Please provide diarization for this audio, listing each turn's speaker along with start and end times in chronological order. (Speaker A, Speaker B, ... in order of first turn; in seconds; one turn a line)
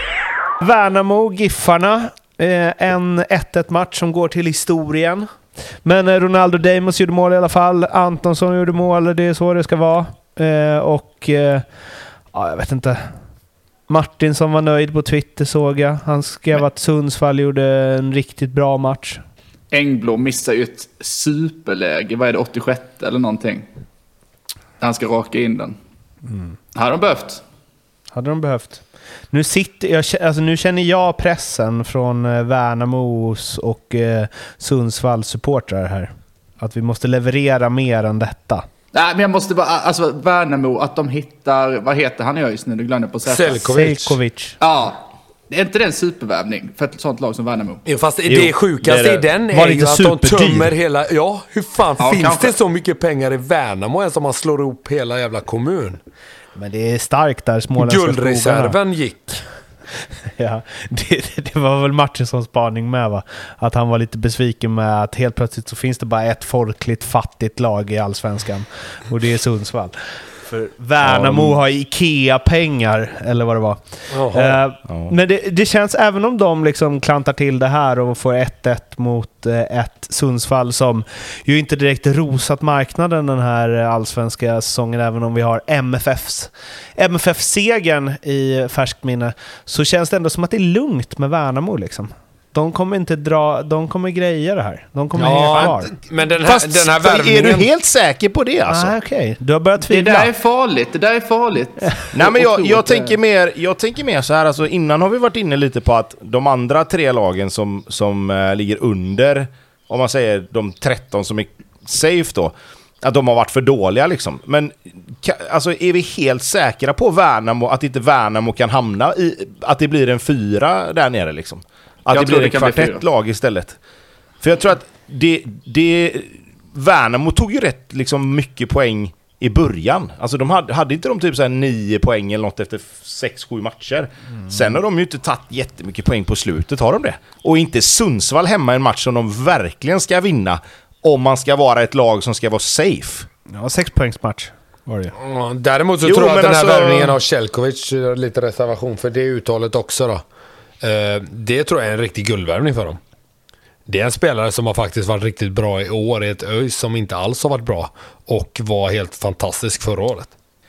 Speaker A: 0.6-5.3
Speaker A: 5.8-11.7
Speaker A: 12.3-13.1
Speaker A: 13.9-19.2
Speaker B: 19.7-23.7
Speaker B: 24.8-25.8
Speaker A: 26.3-26.6
Speaker B: 26.8-27.4
Speaker A: 28.1-38.7
Speaker B: 38.9-43.7
Speaker C: 43.3-44.2
Speaker A: 43.7-44.6
Speaker B: 44.6-47.8
Speaker C: 47.9-56.0
Speaker D: 48.3-50.3
Speaker A: 49.5-50.6
Speaker B: 52.0-52.5
Speaker A: 56.5-58.8
Speaker C: 57.8-59.4
Speaker A: 60.4-95.9
Speaker C: 74.1-74.6
Speaker C: 95.2-97.7
Speaker D: 96.4-98.9
Speaker A: 98.7-100.3
Speaker B: 99.9-103.1
Speaker D: 102.1-123.8
Speaker B: 122.1-123.0
Speaker D: 124.4-143.3
Speaker A: 143.5-145.1
Speaker C: 145.2-150.2
Speaker D: 146.0-147.2
Speaker C: 150.8-153.0
Speaker C: 153.9-160.3